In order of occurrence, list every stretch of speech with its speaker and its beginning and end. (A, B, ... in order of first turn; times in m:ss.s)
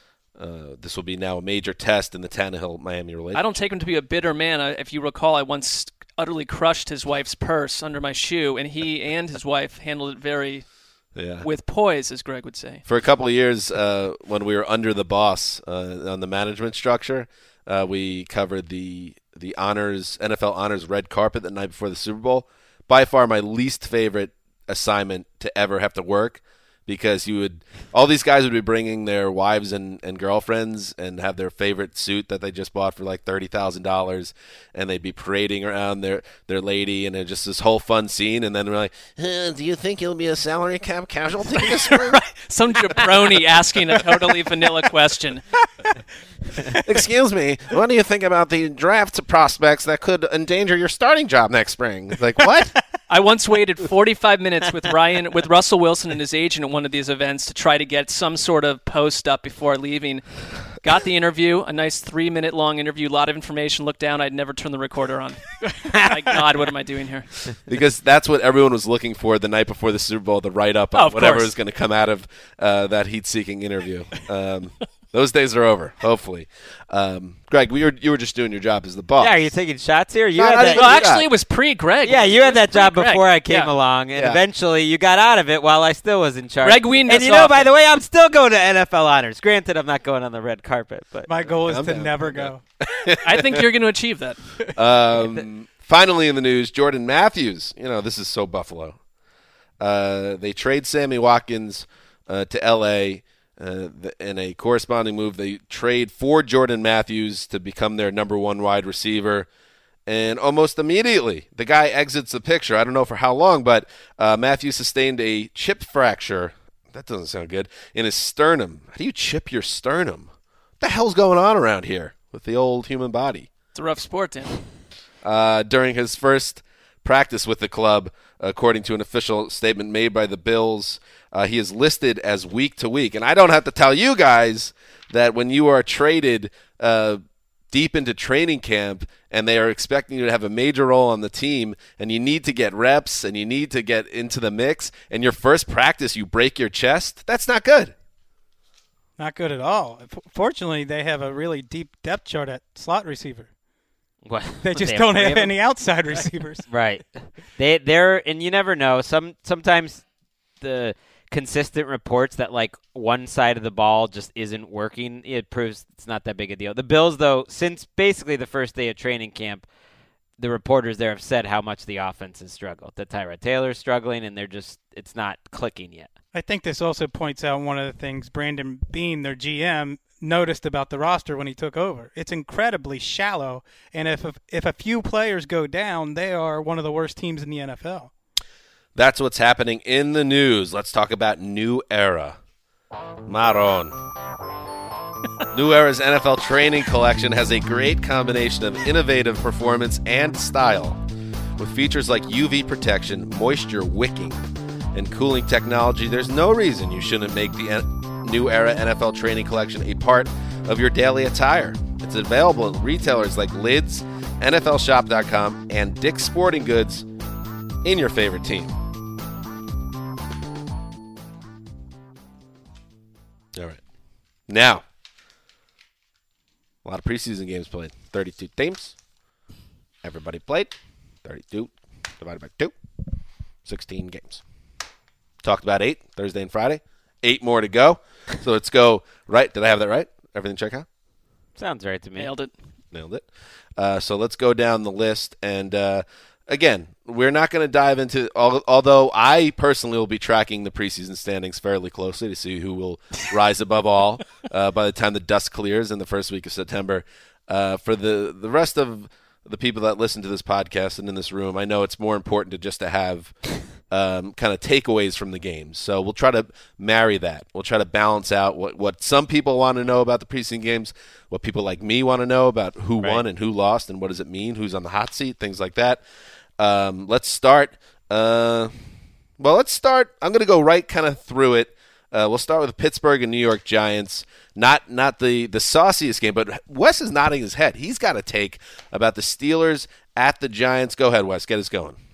0:00.4-0:03.5 A
0:03.3-0:10.6 B
0:11.2-0:11.5 A
0:11.4-0:12.8 B
0:12.9-0:42.2 A
0:41.6-0:45.4 B
0:46.8-0:52.7 A
0:53.1-1:00.2 B
1:00.8-1:07.3 B
1:05.9-1:06.3 C
1:07.7-1:19.5 A
1:10.9-1:11.5 B
1:19.2-1:21.1 C
1:20.4-1:21.2 A
1:20.6-1:23.7 B
1:22.0-1:31.3 C
1:24.1-1:24.4 A
1:26.6-1:27.6 B
1:31.3-1:32.6 D
1:31.6-1:33.6 A
1:33.2-1:34.4 B
1:34.8-1:39.0 A
1:35.2-1:35.4 C
1:39.8-1:49.5 A
1:50.1-2:00.3 A
2:00.8-2:03.5 A
2:03.7-2:04.6 B
2:05.2-2:27.9 A
2:29.2-2:33.5 D
2:34.2-2:35.5 C
2:34.6-2:36.6 D
2:36.7-2:40.0 C
2:40.6-2:49.6 C
2:50.4-2:56.1 C
2:56.3-3:08.1 D
3:08.9-3:12.4 A
3:13.3-3:13.9 A
3:15.5-3:21.0 A
3:21.6-3:24.4 A
3:24.9-3:37.1 A
3:37.8-3:38.7 A
3:44.5-3:44.8 A
3:46.8-3:48.9 A
3:50.0-3:50.7 A
3:51.2-3:52.7 A
3:53.6-3:54.4 A
3:55.4-4:00.8 A
4:01.6-4:02.3 C
4:02.2-4:02.5 B
4:02.9-4:03.2 A
4:03.8-4:23.3 A
4:23.9-4:36.0 A
4:36.6-4:38.7 A
4:39.4-4:52.0 A